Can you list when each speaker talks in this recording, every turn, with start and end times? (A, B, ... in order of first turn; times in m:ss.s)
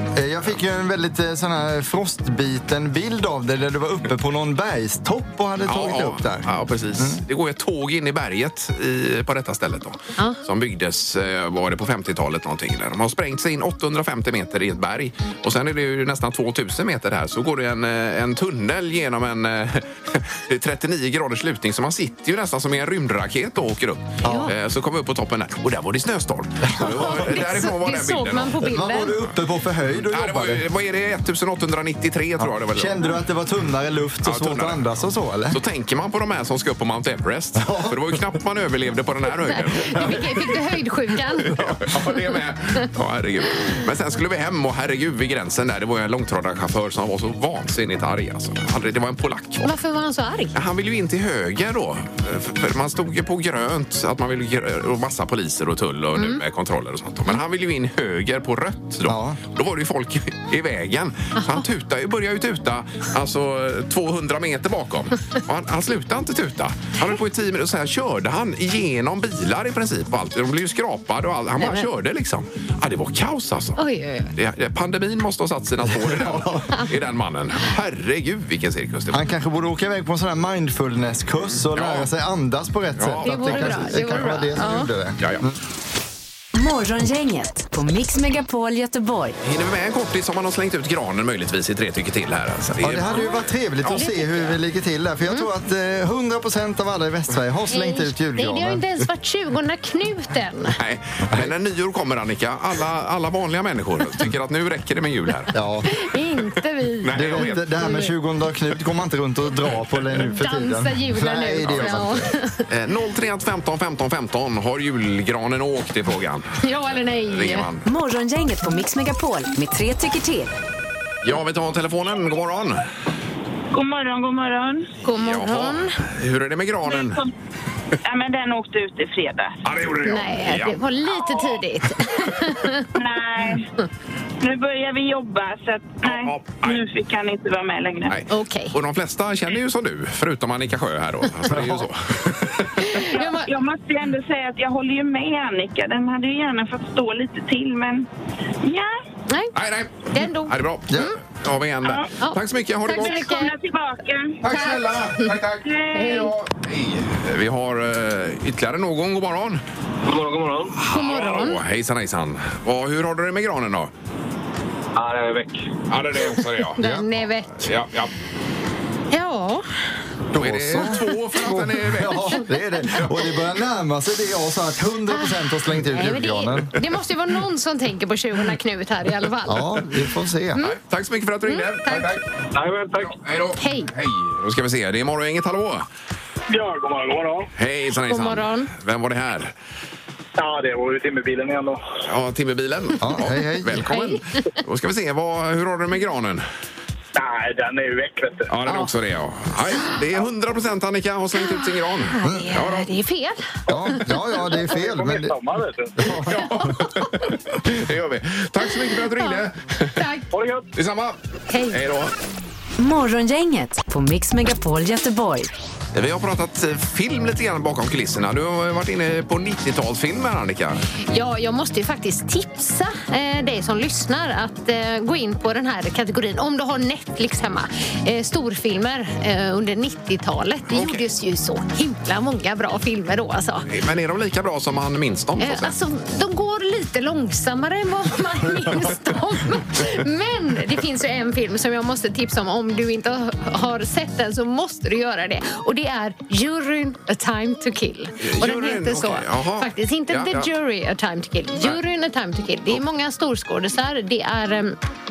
0:00.2-0:07.2 A
0:05.7-0:28.7 B
0:24.2-0:24.5 A
0:24.2-0:24.5 C
0:26.7-0:27.4 A
0:26.8-0:29.2 C
0:28.6-0:30.7 A
0:30.1-0:33.2 B
0:32.4-0:35.6 A
0:34.2-0:34.9 B
0:35.5-0:40.2 B
0:37.6-0:38.4 A
0:39.8-0:41.5 C
0:39.8-0:40.4 A
0:41.4-0:49.7 B
0:41.5-0:41.8 A
0:49.6-0:50.6 C
0:50.5-1:13.8 B
0:56.2-0:56.4 C
0:59.1-0:59.4 A
1:11.6-1:11.9 C
1:13.8-1:14.3 C
1:14.4-1:19.2 B
1:15.8-1:16.8 A
1:19.1-1:25.5 A
1:21.7-1:22.1 B
1:23.0-1:24.7 B
1:23.2-1:24.9 C
1:25.2-1:25.5 B
1:26.6-1:29.4 D
1:29.4-1:34.6 B
1:32.8-1:38.8 A
1:33.1-1:34.2 C
1:37.7-1:40.8 C
1:40.8-1:45.6 B
1:45.5-1:45.9 A
1:45.9-1:48.1 C
1:47.0-1:47.6 B
1:47.1-1:52.3 A
1:50.2-1:52.6 C
1:51.6-1:52.0 B
1:52.7-1:56.6 B
1:56.6-1:57.7 C
1:57.3-1:57.9 B
1:57.8-2:00.6 D
2:01.2-2:02.8 B
2:03.7-2:04.9 E
2:05.0-2:06.0 C
2:05.1-2:07.2 B
2:06.9-2:07.3 E
2:08.0-2:09.6 E
2:09.6-2:10.8 B
2:10.0-2:12.9 C
2:13.0-2:13.7 E
2:14.4-2:18.2 E
2:16.0-2:16.8 B
2:18.1-2:23.0 B
2:18.3-2:18.8 C
2:21.5-2:21.9 A
2:22.8-2:23.5 C
2:23.0-2:28.1 E
2:28.6-2:29.0 E
2:29.3-2:29.5 C
2:29.5-2:33.2 B
2:30.1-2:31.2 C
2:31.8-2:32.1 E
2:32.2-2:33.5 C
2:32.9-2:34.4 E
2:34.4-2:39.6 B
2:34.5-2:35.3 C
2:35.6-2:36.3 E
2:35.9-2:36.3 C
2:40.1-2:40.7 F
2:40.8-2:43.9 B
2:40.9-2:41.6 C
2:45.0-2:45.6 F
2:45.9-2:46.8 B
2:46.8-2:47.7 C
2:46.8-2:47.1 A
2:47.5-2:48.1 B
2:49.1-2:49.7 C
2:50.3-2:56.8 A
2:50.4-2:53.1 B
2:52.3-2:53.0 C
2:55.1-2:59.9 C
2:59.5-3:00.6 A
3:00.6-3:02.3 B
3:01.4-3:02.1 C
3:02.6-3:03.2 F
3:03.1-3:05.9 B
3:03.6-3:03.9 C
3:06.5-3:07.5 F
3:07.6-3:09.5 B
3:08.1-3:08.7 C
3:10.4-3:11.8 F
3:12.1-3:16.4 B
3:13.0-3:14.0 A
3:13.8-3:14.2 C
3:17.2-3:18.5 F
3:18.5-3:22.9 B
3:18.7-3:18.9 C
3:21.4-3:24.5 C
3:22.2-3:22.5 A
3:23.7-3:25.4 A
3:23.7-3:26.2 F
3:26.0-3:26.3 A
3:26.1-3:30.1 B
3:29.2-3:29.5 C
3:30.0-3:30.3 C
3:30.3-3:30.7 F
3:30.8-3:32.1 B
3:31.5-3:31.8 C
3:32.8-3:35.5 D
3:35.9-3:40.8 B
3:41.1-3:53.7 C
3:50.7-3:51.0 B
3:53.7-3:55.7 B
3:55.4-4:14.8 C
4:08.2-4:10.5 B